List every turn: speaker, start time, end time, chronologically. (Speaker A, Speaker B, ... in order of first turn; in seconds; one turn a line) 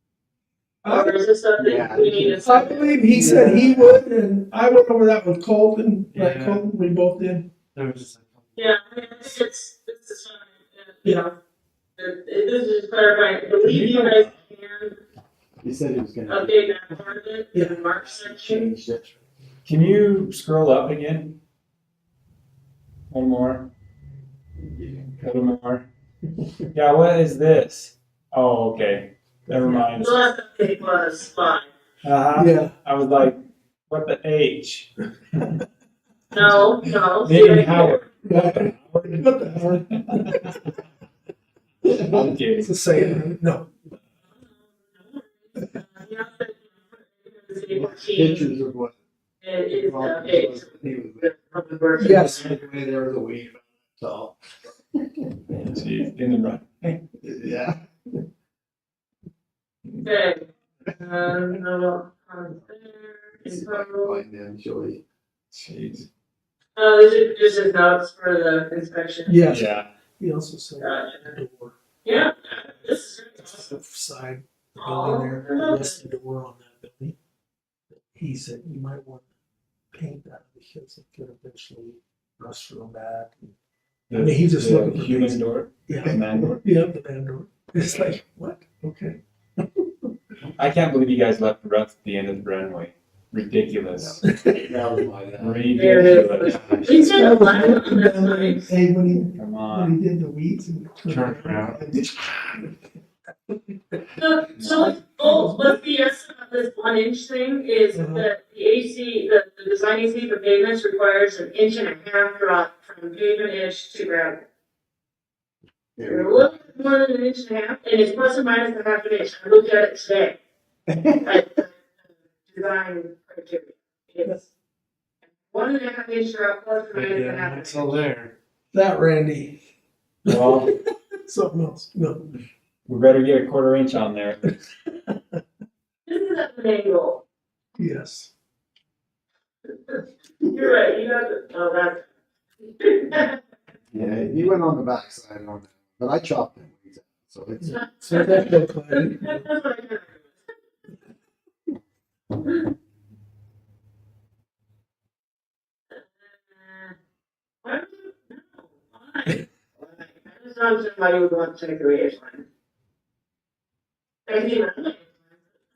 Speaker A: 0.8-1.2
Speaker B: 0.9-3.0
Speaker C: 1.6-4.0
Speaker A: 2.4-7.5
Speaker D: 6.1-6.7
Speaker D: 7.7-8.8
Speaker B: 8.6-11.4
Speaker B: 12.0-15.0
Speaker E: 13.6-14.3
Speaker C: 15.6-17.1
Speaker B: 16.3-18.7
Speaker A: 17.5-17.8
Speaker C: 18.0-19.1
Speaker E: 19.7-21.4
Speaker E: 23.1-23.7
Speaker C: 24.6-25.2
Speaker E: 25.2-25.9
Speaker E: 26.7-30.3
Speaker A: 29.5-29.9
Speaker B: 30.0-31.7
Speaker E: 32.0-33.4
Speaker A: 32.4-32.8
Speaker E: 33.9-35.5
Speaker B: 36.3-38.0
Speaker A: 36.4-36.9
Speaker E: 37.2-40.4
Speaker C: 38.3-38.7
Speaker A: 38.3-40.6
Speaker A: 41.9-43.7
Speaker E: 42.0-42.7
Speaker B: 44.4-48.5
Speaker C: 47.7-49.0
Speaker B: 49.4-52.6
Speaker C: 49.7-51.4
Speaker A: 52.0-52.5
Speaker C: 52.3-54.4
Speaker C: 55.0-55.8
Speaker E: 55.7-57.0
Speaker C: 57.2-57.8
Speaker B: 60.0-64.2
Speaker C: 63.5-65.0
Speaker E: 65.5-66.1
Speaker B: 66.8-69.4
Speaker A: 69.3-71.8
Speaker E: 69.5-69.9
Speaker B: 70.8-71.3
Speaker B: 72.0-73.7
Speaker A: 73.4-77.2
Speaker B: 74.8-76.0
Speaker A: 77.9-79.3
Speaker A: 79.9-83.5
Speaker E: 84.1-86.6
Speaker A: 84.1-89.8
Speaker C: 86.1-86.4
Speaker E: 90.6-94.2
Speaker C: 94.0-95.7
Speaker A: 94.2-94.9
Speaker E: 95.4-96.7
Speaker B: 95.8-98.7
Speaker D: 96.4-96.9
Speaker C: 96.5-97.0
Speaker A: 96.9-102.7
Speaker E: 99.3-100.0
Speaker D: 101.0-101.8
Speaker A: 103.7-104.0
Speaker B: 104.2-114.5
Speaker E: 104.5-104.9
Speaker A: 104.7-105.8
Speaker A: 107.9-108.3
Speaker C: 116.0-116.5
Speaker B: 116.0-120.4
Speaker C: 120.9-121.4
Speaker B: 121.2-124.5
Speaker B: 125.5-128.0
Speaker D: 126.9-128.3
Speaker A: 128.7-129.6
Speaker A: 130.2-132.3
Speaker E: 130.3-130.7
Speaker E: 132.9-134.4
Speaker A: 135.1-135.4
Speaker B: 136.1-137.2
Speaker A: 137.8-138.3
Speaker B: 139.9-142.1
Speaker B: 142.6-143.4
Speaker C: 143.9-147.7
Speaker A: 147.6-149.5
Speaker B: 147.8-150.4
Speaker B: 155.9-157.0
Speaker B: 157.6-162.5
Speaker B: 164.3-165.4